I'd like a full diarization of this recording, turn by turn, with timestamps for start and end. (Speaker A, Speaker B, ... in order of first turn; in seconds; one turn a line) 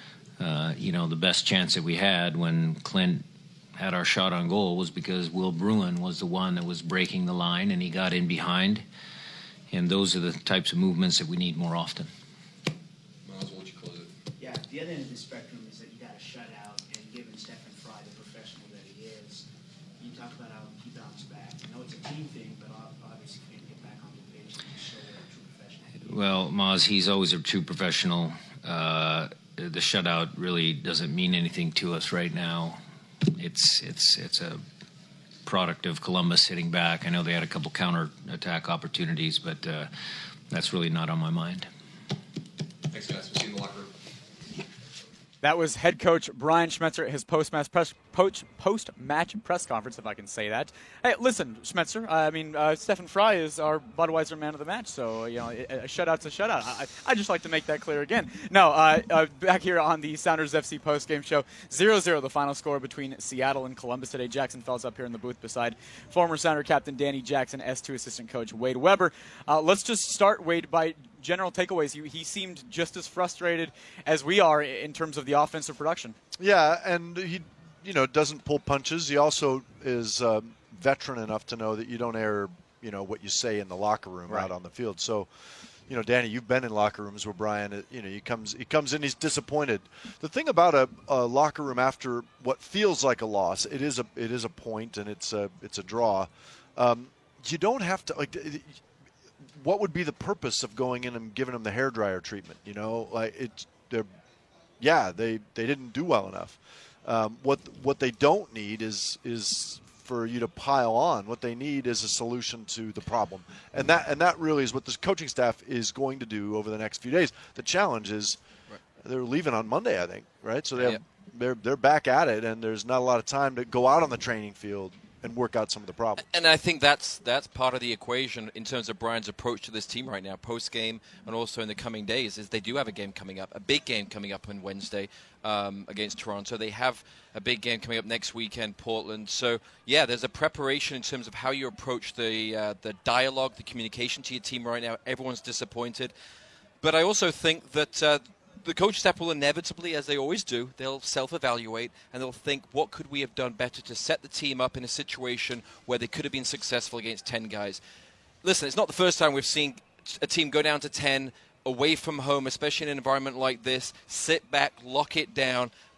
Speaker A: 0.4-3.2
Speaker A: 3.8-8.8
Speaker A: 9.7-12.1
Speaker B: 13.2-14.1
Speaker C: 14.4-19.5
Speaker C: 20.0-26.1
Speaker A: 26.0-34.6
Speaker A: 35.5-39.9
Speaker A: 40.5-41.7
Speaker B: 42.9-43.9
Speaker D: 45.4-76.2
Speaker E: 76.4-85.3
Speaker E: 85.9-98.8
Speaker E: 99.5-104.1
Speaker E: 104.8-118.4
Speaker E: 119.0-126.3
Speaker F: 120.8-121.0
Speaker F: 126.2-146.1
Speaker F: 146.8-157.8
Speaker F: 158.4-165.7